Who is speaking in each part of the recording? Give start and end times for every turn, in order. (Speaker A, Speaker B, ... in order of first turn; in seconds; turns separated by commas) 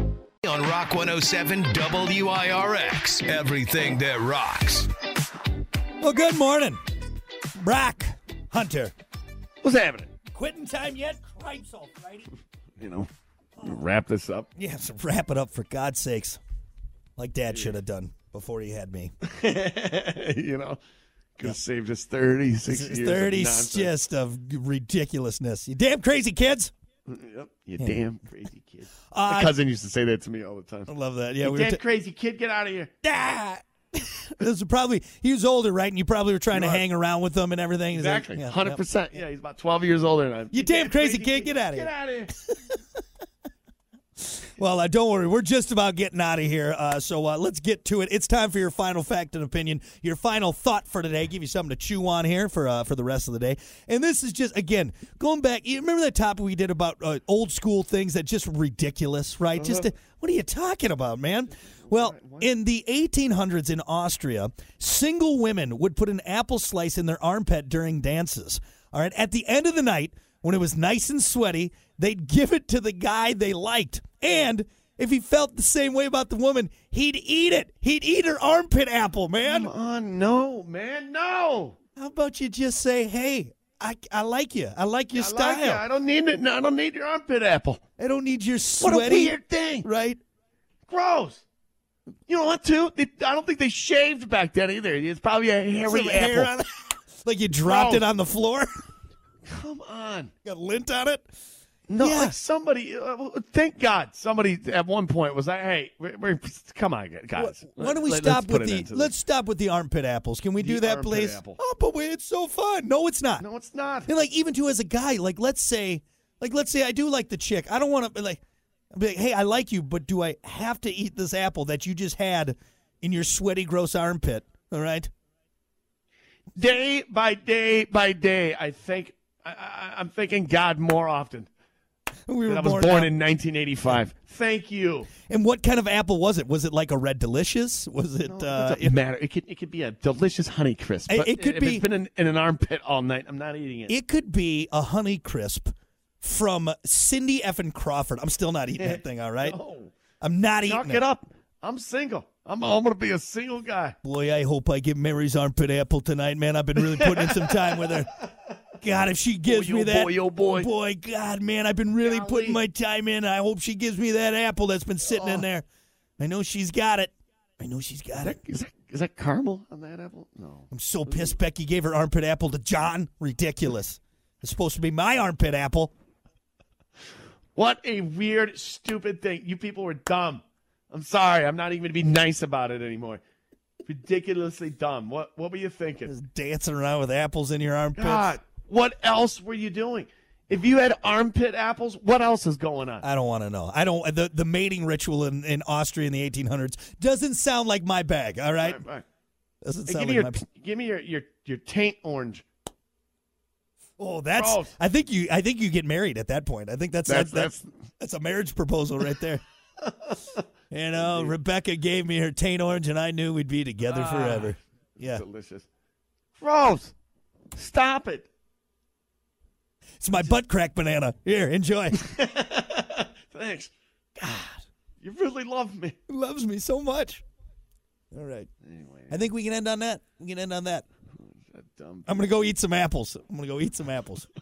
Speaker A: 0.4-4.9, Speaker B: 6.0-6.8, Speaker B: 7.6-8.9, Speaker C: 9.6-10.1, Speaker B: 10.3-12.3, Speaker C: 12.8-13.1, Speaker C: 13.6-14.5, Speaker B: 14.6-16.4, Speaker B: 17.2-19.1, Speaker C: 19.3-20.8, Speaker C: 21.4-23.9, Speaker B: 22.7-26.7, Speaker C: 27.1-30.9, Speaker B: 29.1-29.5, Speaker B: 30.9-31.8, Speaker C: 31.4-32.9, Speaker B: 33.0-38.8, Speaker C: 36.5-36.8, Speaker C: 37.9-42.4, Speaker B: 40.5-42.8, Speaker B: 44.2-79.7, Speaker C: 59.5-59.9, Speaker C: 61.6-62.5, Speaker C: 79.4-81.8, Speaker B: 82.0-85.8, Speaker C: 85.1-87.8, Speaker B: 88.0-90.2, Speaker C: 88.8-89.9, Speaker C: 90.9-91.5, Speaker C: 92.3-96.6, Speaker B: 95.8-96.7, Speaker B: 97.2-98.7, Speaker C: 97.6-98.1, Speaker C: 99.5-100.3, Speaker B: 100.5-101.3, Speaker C: 101.9-109.1, Speaker B: 102.0-102.4, Speaker B: 107.4-113.5, Speaker C: 110.6-111.6, Speaker C: 113.4-114.1, Speaker B: 114.1-118.4, Speaker B: 118.9-125.1, Speaker C: 126.6-131.5, Speaker B: 132.3-133.1, Speaker C: 132.5-135.1, Speaker B: 135.2-139.0, Speaker C: 138.3-143.9, Speaker B: 141.1-141.9, Speaker B: 143.9-149.6, Speaker C: 148.8-149.9, Speaker B: 150.2-151.0, Speaker C: 150.6-154.0, Speaker B: 154.0-158.1, Speaker C: 156.8-158.0, Speaker B: 158.8-165.7, Speaker C: 159.4-160.7, Speaker C: 162.0-162.6, Speaker C: 165.0-165.5, Speaker B: 166.2-168.4, Speaker C: 168.2-171.4, Speaker B: 170.7-175.9, Speaker C: 177.6-183.2, Speaker C: 183.8-186.1, Speaker B: 186.1-188.3, Speaker C: 188.0-193.1, Speaker B: 193.0-198.8, Speaker C: 198.6-199.1, Speaker B: 199.6-200.4, Speaker C: 199.9-202.4, Speaker B: 204.0-209.4, Speaker C: 204.3-204.7, Speaker C: 207.1-207.7, Speaker C: 209.8-210.2, Speaker B: 210.7-215.2, Speaker C: 211.0-211.4, Speaker C: 213.8-215.7, Speaker C: 216.4-216.9, Speaker C: 217.6-218.3, Speaker B: 220.0-222.1, Speaker C: 220.1-220.4, Speaker C: 222.0-223.7, Speaker B: 224.2-224.6, Speaker C: 225.0-226.0, Speaker B: 226.1-227.2, Speaker B: 228.1-228.5, Speaker C: 228.6-229.2, Speaker B: 229.1-230.8, Speaker C: 231.2-232.3, Speaker B: 232.1-234.3